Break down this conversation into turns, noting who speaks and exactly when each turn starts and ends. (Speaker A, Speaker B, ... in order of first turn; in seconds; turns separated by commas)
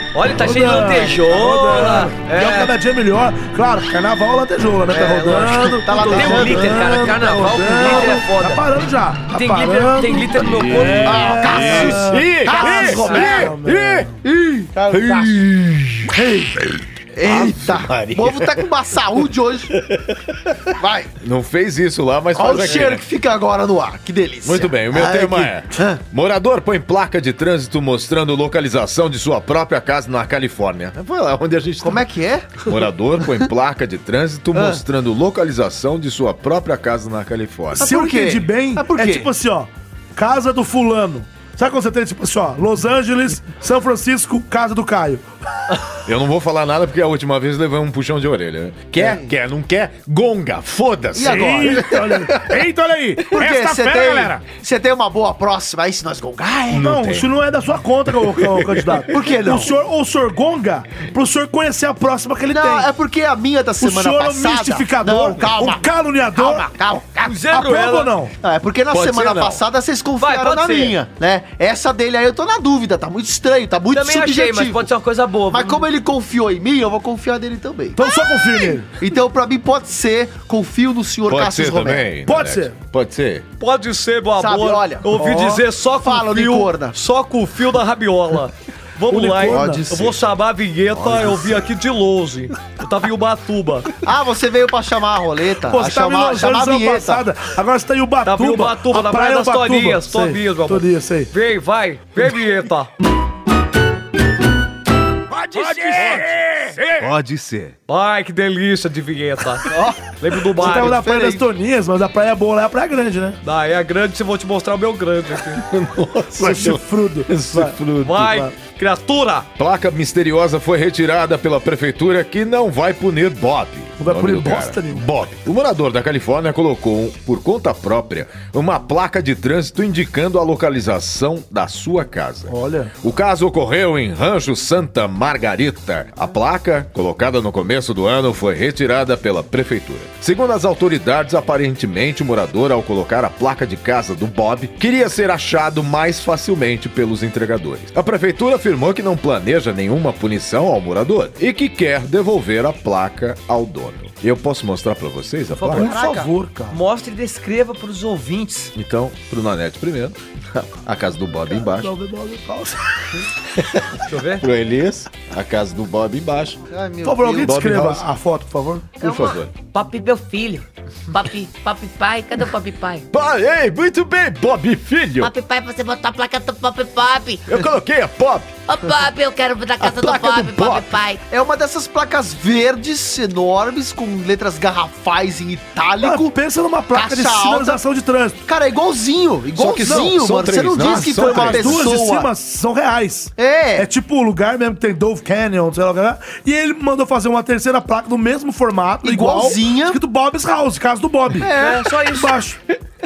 Speaker A: 0.1-2.7, Speaker B: 0.4-14.2, Speaker C: 4.9-6.8, Speaker A: 4.9-8.6, Speaker A: 9.3-11.8, Speaker D: 10.3-14.1, Speaker C: 11.1-13.5, Speaker A: 12.9-13.4, Speaker C: 14.2-15.4, Speaker D: 14.9-16.2, Speaker B: 16.1-16.6, Speaker D: 16.7-20.5, Speaker C: 17.1-19.7, Speaker C: 20.8-21.1, Speaker D: 21.2-23.0, Speaker C: 22.4-26.0, Speaker D: 24.4-32.0, Speaker C: 31.8-32.7, Speaker D: 32.6-37.9, Speaker C: 34.5-34.8, Speaker C: 37.8-39.3, Speaker B: 37.8-45.9, Speaker D: 46.0-52.6, Speaker C: 49.0-49.3, Speaker C: 51.1-52.0, Speaker B: 51.2-54.4, Speaker C: 53.3-56.9, Speaker D: 56.7-57.3, Speaker B: 56.7-62.9, Speaker D: 58.4-59.0, Speaker C: 59.1-59.7, Speaker C: 62.5-67.3, Speaker B: 63.8-66.7, Speaker A: 67.2-68.1, Speaker B: 67.5-68.3, Speaker C: 68.4-74.9, Speaker D: 68.9-69.6, Speaker A: 70.2-71.0, Speaker A: 73.9-75.9, Speaker C: 75.5-78.0, Speaker B: 78.0-78.9, Speaker C: 79.0-82.1, Speaker D: 81.3-83.5, Speaker B: 82.3-82.8, Speaker A: 83.6-93.9, Speaker C: 84.4-87.0, Speaker B: 85.2-85.6, Speaker B: 89.1-89.9, Speaker C: 89.5-90.1, Speaker D: 90.9-91.7, Speaker C: 94.0-97.2, Speaker B: 95.6-101.3, Speaker A: 98.2-102.9, Speaker D: 105.3-107.8, Speaker A: 105.5-106.3, Speaker A: 107.9-111.0, Speaker C: 109.7-110.0, Speaker C: 110.6-111.4, Speaker B: 110.6-113.4, Speaker A: 113.4-115.6, Speaker D: 115.5-118.4, Speaker B: 116.3-118.5, Speaker A: 118.0-119.5, Speaker D: 119.6-155.9, Speaker B: 124.0-125.0, Speaker B: 132.5-132.9, Speaker A: 155.5-156.0, Speaker B: 155.7-156.8, Speaker C: 155.8-156.3, Speaker A: 156.7-158.7, Speaker D: 158.8-160.2, Speaker D: 160.8-161.9, Speaker B: 161.5-163.2, Speaker D: 163.6-166.6, Speaker A: 164.1-164.4, Speaker C: 166.7-167.6, Speaker B: 167.0-168.9, Speaker D: 167.4-168.0, Speaker C: 169.0-169.4, Speaker D: 169.0-169.5, Speaker A: 169.7-170.7, Speaker E: 171.1-173.0, Speaker D: 173.1-175.3, Speaker E: 175.2-177.4, Speaker D: 177.5-178.7, Speaker E: 178.7-181.2, Speaker D: 179.8-181.0, Speaker C: 181.3-186.4, Speaker B: 186.0-188.4, Speaker C: 186.9-187.8, Speaker C: 188.5-192.3, Speaker D: 189.6-191.9, Speaker B: 189.8-190.2, Speaker B: 190.8-201.5, Speaker C: 193.4-193.9, Speaker C: 199.0-200.0, Speaker C: 201.4-201.9, Speaker A: 201.6-202.3, Speaker B: 202.1-202.6